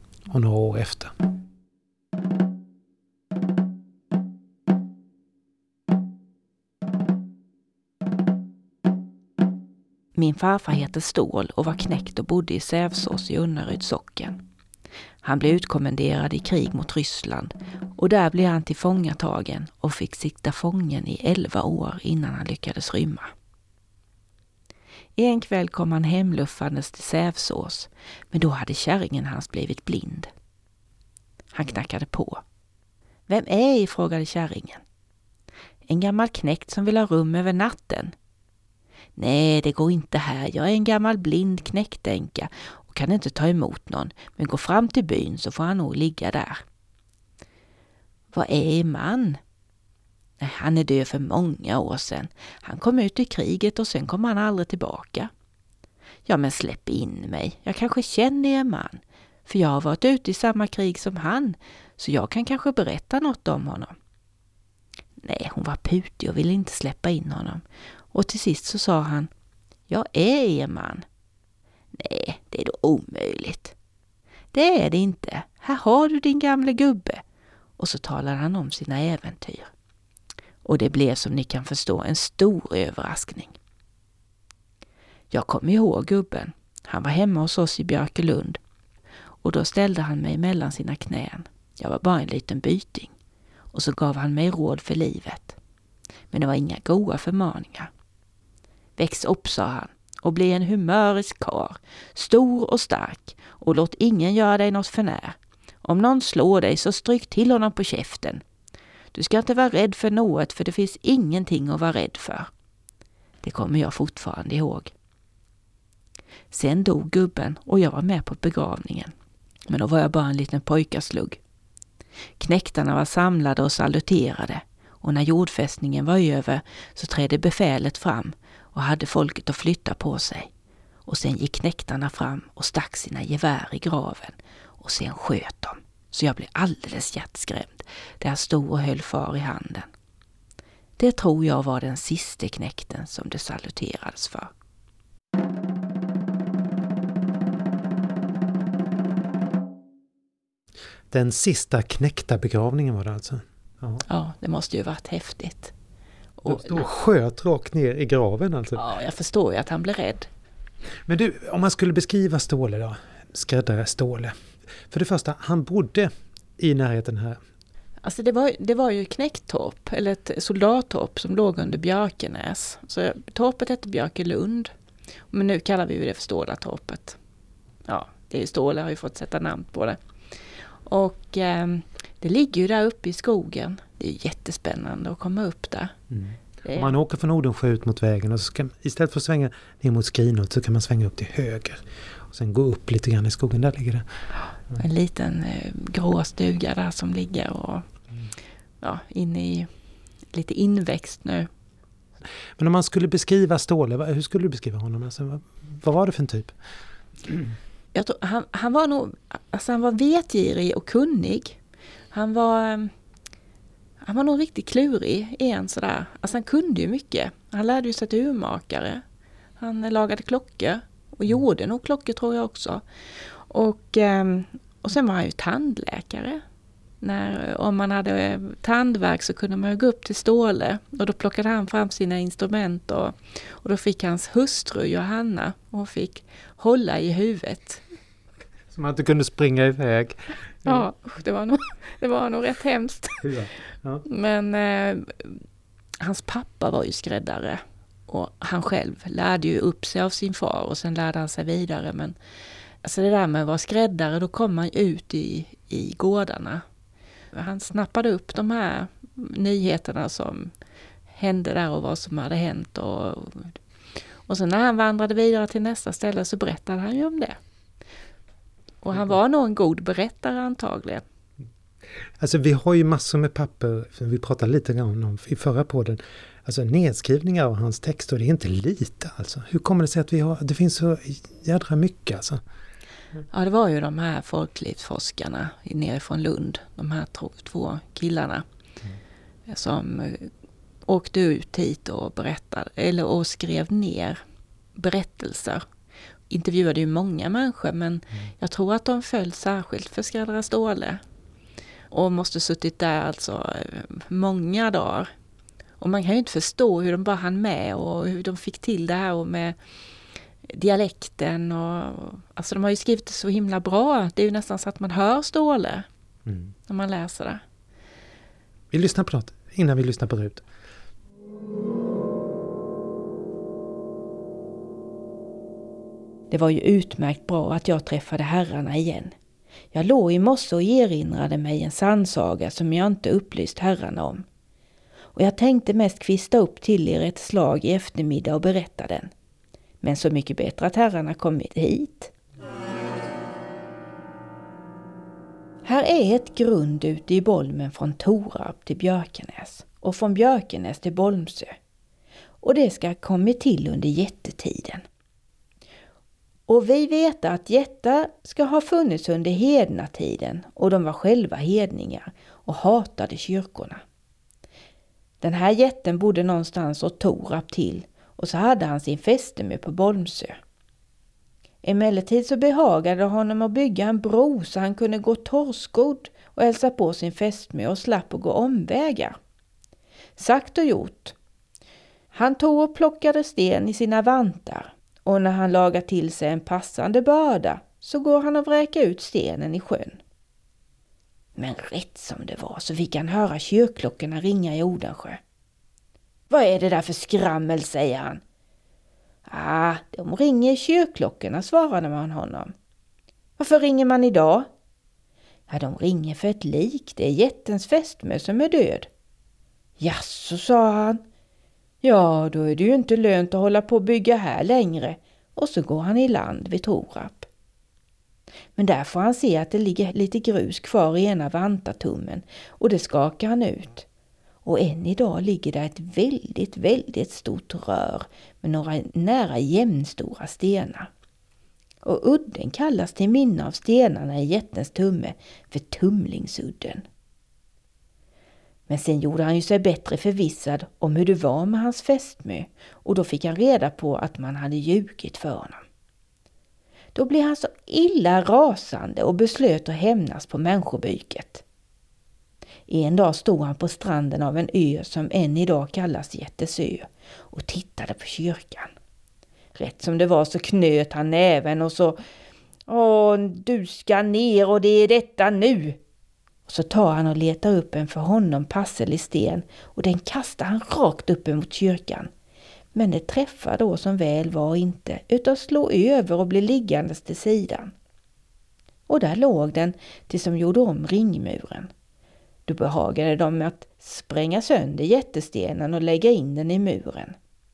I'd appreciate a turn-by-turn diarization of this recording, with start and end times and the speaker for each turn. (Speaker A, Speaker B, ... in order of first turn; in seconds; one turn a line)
Speaker A: 0.3-1.1
Speaker B: 10.2-14.4
Speaker B: 15.2-23.3
Speaker B: 25.2-30.3
Speaker B: 31.5-32.4
Speaker B: 33.3-34.8
Speaker B: 35.9-38.1
Speaker B: 39.2-46.6
Speaker B: 48.3-49.4
Speaker B: 50.4-55.3
Speaker B: 56.2-64.0
Speaker B: 65.2-69.3
Speaker B: 69.9-71.0
Speaker B: 71.9-73.8
Speaker B: 74.5-77.2
Speaker B: 77.8-79.7
Speaker B: 80.6-83.5
Speaker B: 85.3-88.6
Speaker B: 89.4-93.1
Speaker B: 93.7-95.6
Speaker B: 96.3-97.9
Speaker B: 99.0-108.4
Speaker B: 109.1-112.5
Speaker B: 113.4-114.9
Speaker B: 116.5-119.1
Speaker B: 119.7-121.4
Speaker B: 122.4-130.5
Speaker B: 131.1-139.9
Speaker B: 141.0-144.5
Speaker A: 151.1-154.0
Speaker B: 154.1-155.7
Speaker B: 156.4-156.8
Speaker A: 156.4-158.8
Speaker B: 158.8-160.3
Speaker A: 161.1-164.3
Speaker A: 164.9-167.4
Speaker B: 168.0-174.7
Speaker B: 175.3-177.2
Speaker B: 177.9-185.9
Speaker A: 186.1-194.1
Speaker B: 186.6-186.9
Speaker B: 194.8-197.9
Speaker B: 198.8-199.7
Speaker B: 200.3-201.5
Speaker A: 202.6-206.5
Speaker B: 207.9-211.6
Speaker B: 212.1-212.9
Speaker B: 214.0-219.0
Speaker B: 219.6-226.4
Speaker B: 227.0-237.8
Speaker A: 238.7-240.9
Speaker B: 240.6-243.2
Speaker A: 243.2-244.0
Speaker B: 244.1-245.4
Speaker B: 246.0-252.1
Speaker B: 252.8-256.6
Speaker B: 257.3-260.5
Speaker B: 261.1-263.6
Speaker B: 264.3-267.4
Speaker B: 268.8-271.0
Speaker A: 272.2-282.4
Speaker B: 283.3-288.4
Speaker B: 289.5-290.3
Speaker B: 290.9-294.2
Speaker B: 294.8-295.6
Speaker B: 296.3-301.0
Speaker B: 301.9-305.1
Speaker B: 305.8-309.6
Speaker B: 310.5-315.9
Speaker A: 316.2-316.5
Speaker B: 316.7-317.4
Speaker A: 318.7-320.4
Speaker B: 326.3-329.1
Speaker B: 329.7-334.2
Speaker B: 335.1-339.1
Speaker B: 339.8-342.1
Speaker B: 345.6-351.6
Speaker B: 352.4-354.8
Speaker B: 356.5-363.8
Speaker B: 365.2-370.4
Speaker B: 371.6-379.2
Speaker B: 380.2-381.1
Speaker B: 382.1-390.0
Speaker B: 391.4-395.2
Speaker B: 396.3-398.2
Speaker B: 399.3-402.5
Speaker B: 403.4-404.5
Speaker B: 405.5-408.9
Speaker B: 409.8-411.0
Speaker B: 411.8-417.3
Speaker B: 418.6-423.9
Speaker B: 424.4-430.9
Speaker B: 431.8-436.9
Speaker B: 438.7-445.6
Speaker B: 446.9-451.4
Speaker B: 452.7-458.7
Speaker B: 459.5-462.0
Speaker B: 462.7-465.8
Speaker B: 466.5-472.1
Speaker B: 472.7-477.7
Speaker B: 478.9-481.7
Speaker B: 482.5-487.1